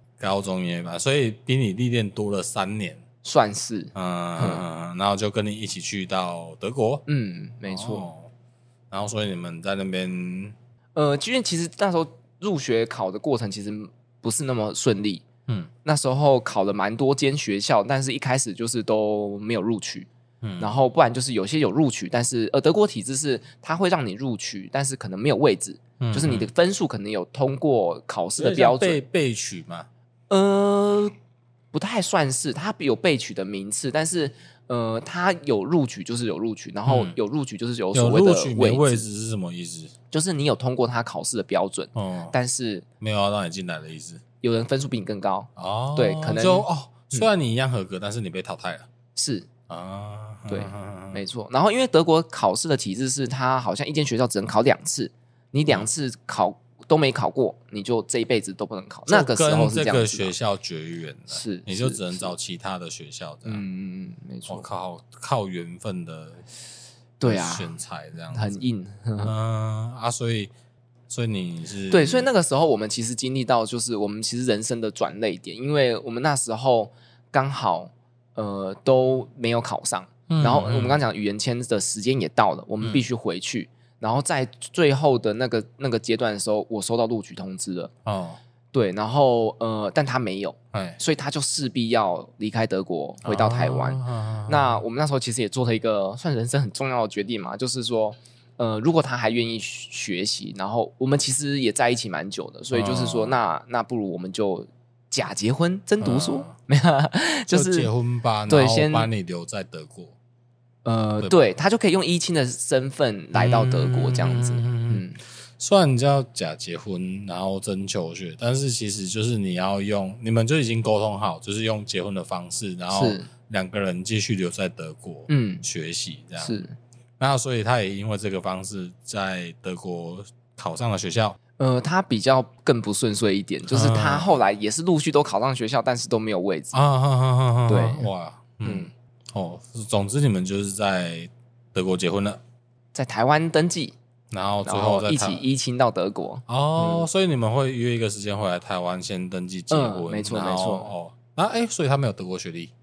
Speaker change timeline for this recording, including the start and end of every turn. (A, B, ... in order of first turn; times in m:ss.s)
0:00.2-0:03.0 A
0:03.2-0:04.6 B
0:04.0-0:07.0 A
0:07.1-0:08.1 B
0:07.7-0:08.3 A
0:08.9-0:10.6 A
0:11.0-0:15.2 B
0:15.8-0:29.0 B
0:20.4-0:20.8 A
0:26.0-0:26.5 A
0:28.4-0:29.9 A
0:30.3-0:31.1 B
0:31.7-0:39.0 B
0:36.9-0:37.2 A
0:37.9-0:39.9 A
0:40.1-0:42.9 B
0:42.0-0:42.4 A
0:43.0-0:44.2 A
0:44.4-0:47.3 B
0:45.6-0:48.9 A
0:49.2-0:49.5 B
0:49.7-0:51.2 A
0:50.5-1:00.3 B
0:59.1-1:03.6 A
1:01.3-1:02.3 B
1:03.5-1:04.7 B
1:04.5-1:06.4 A
1:07.2-1:07.7 B
1:07.2-1:08.6 A
1:08.3-1:09.3 B
1:09.2-1:10.5 A
1:11.1-1:12.3 A
1:11.9-1:27.9 B
1:20.3-1:21.0 A
1:28.0-1:28.4 A
1:28.7-1:47.9 B
1:30.7-1:31.0 A
1:33.2-1:34.8 A
1:42.7-1:43.4 A
1:46.0-1:46.6 A
1:47.5-1:50.1 A
1:48.5-1:49.1 B
1:50.8-1:55.2 B
1:53.4-1:55.0 A
1:55.6-2:06.6 A
2:02.9-2:03.3 B
2:05.3-2:05.6 B
2:06.4-2:06.7 B
2:07.2-2:11.4 A
2:11.6-2:16.8 B
2:13.7-2:14.3 A
2:16.7-2:22.4 A
2:17.7-2:18.1 B
2:18.6-2:18.9 B
2:22.9-2:24.0 B
2:24.3-2:25.4 A
2:24.6-2:27.1 B
2:26.5-2:32.7 A
2:29.7-2:30.9 B